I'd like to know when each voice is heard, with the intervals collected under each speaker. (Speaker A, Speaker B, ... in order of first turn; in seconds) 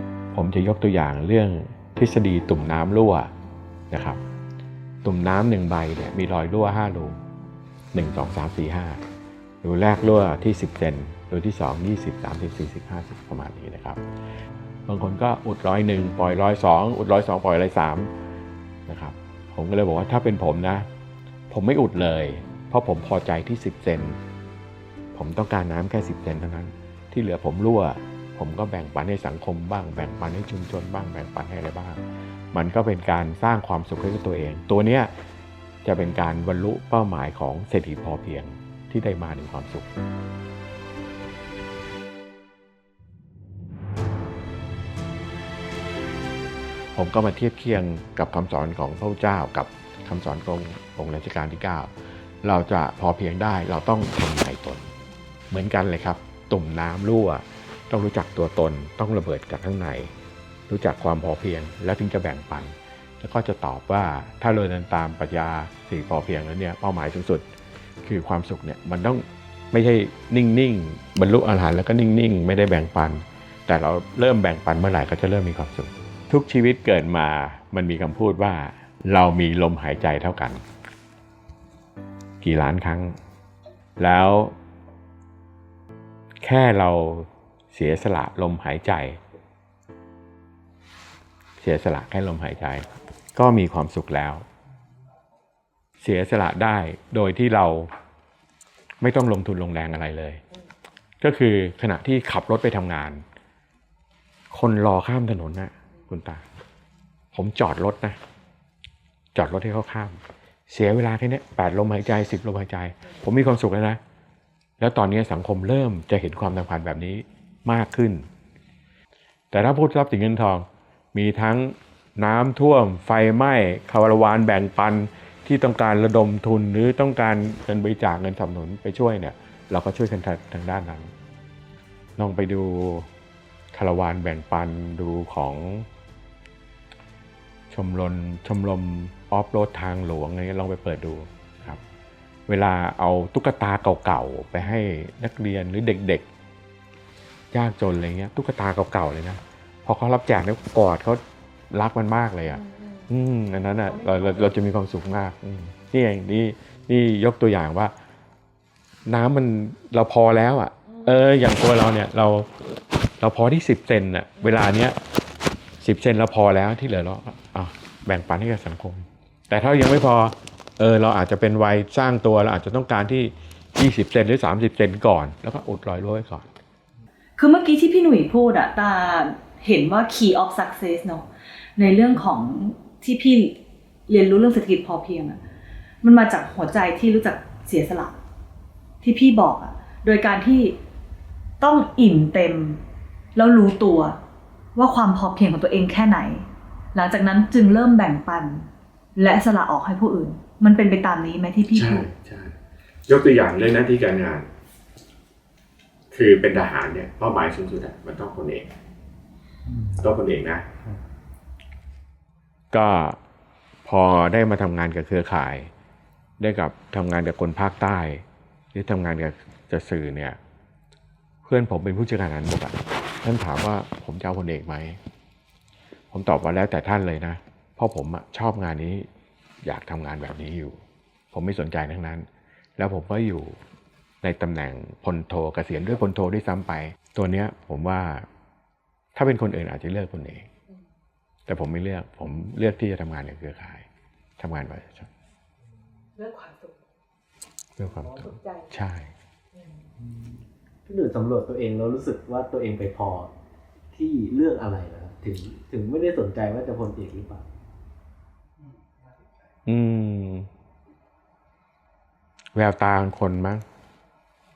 Speaker A: 0.3-3.3, 3.9-4.2, 5.0-7.2, 7.9-9.0, 9.6-14.0, 14.9-18.1, 18.9-20.9, 21.5-24.2, 25.1-35.1, 35.8-39.9, 46.9-54.9, 55.5-60.1, 60.7-67.5, 68.0-80.6, 82.4-83.2, 84.0-84.5, 86.4-89.2, 91.6-94.5, 96.0-97.9, 99.0-100.4, 101.2-103.2, 104.5-106.4, 107.3-108.2, 109.3-114.0, 114.8-118.3, 119.5-131.1, 132.2-133.1, 133.7-135.9, 137.7-141.8, 142.5-146.3, 147.5-157.9, 159.1-162.5, 163.2-165.0, 165.8-176.5, 201.7-202.6, 203.1-204.5, 206.1-208.7, 210.0-210.7, 212.7-213.2, 213.8-215.7, 216.4-220.4, 221.4-225.0, 226.1-229.1, 229.6-230.8, 231.3-233.6, 234.2-238.3, 239.1-240.5, 241.5-243.9, 244.4-245.1, 247.8-249.1, 259.6-260.5, 262.5-263.6
Speaker B: 152.5-153.1, 153.8-154.5, 160.8-161.3, 164.4-164.7, 177.4-183.6, 184.1-185.4, 186.0-188.2, 189.0-190.8, 191.6-192.8, 193.3-194.2, 194.7-202.1, 246.2-246.8, 248.1-248.7, 249.5-249.9
Speaker C: 250.8-253.3, 253.9-257.4